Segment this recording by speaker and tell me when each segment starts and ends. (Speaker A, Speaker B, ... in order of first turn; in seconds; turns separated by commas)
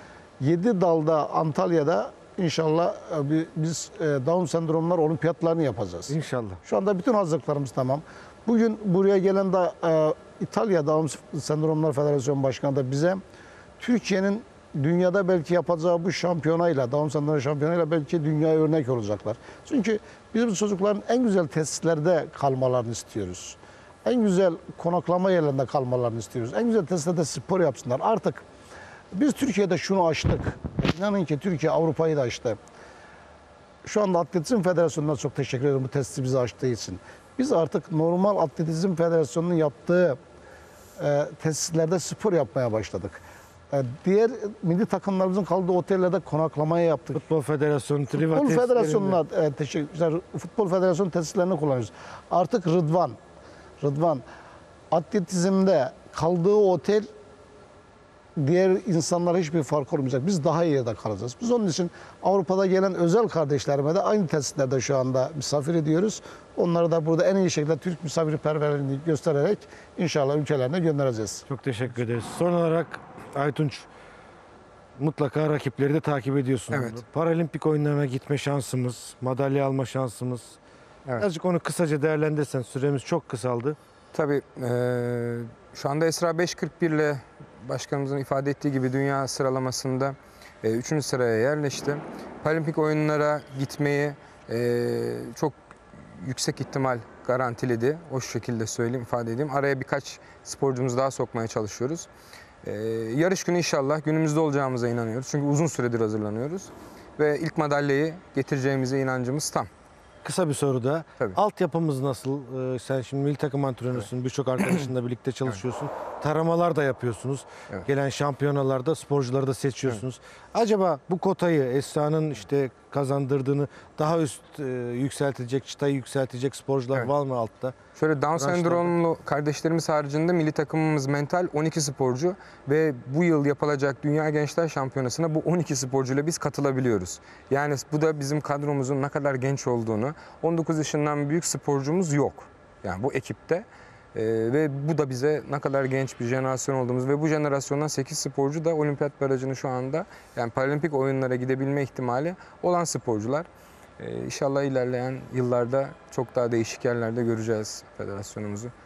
Speaker A: 0.4-13.2, Speaker B: 6.1-6.6, Speaker A: 13.8-28.4, Speaker A: 29.1-32.6, Speaker A: 33.8-40.2, Speaker A: 41.0-47.2, Speaker B: 47.1-49.2, Speaker A: 48.3-53.2, Speaker A: 53.8-54.2, Speaker A: 54.9-57.1, Speaker A: 58.4-71.5, Speaker B: 71.5-73.9, Speaker B: 75.0-80.6, Speaker C: 76.7-77.0, Speaker B: 81.2-83.8, Speaker C: 84.1-95.5, Speaker C: 96.1-102.1, Speaker C: 102.6-109.7, Speaker B: 110.2-127.8, Speaker C: 128.0-153.5, Speaker B: 128.4-128.9, Speaker C: 154.0-158.7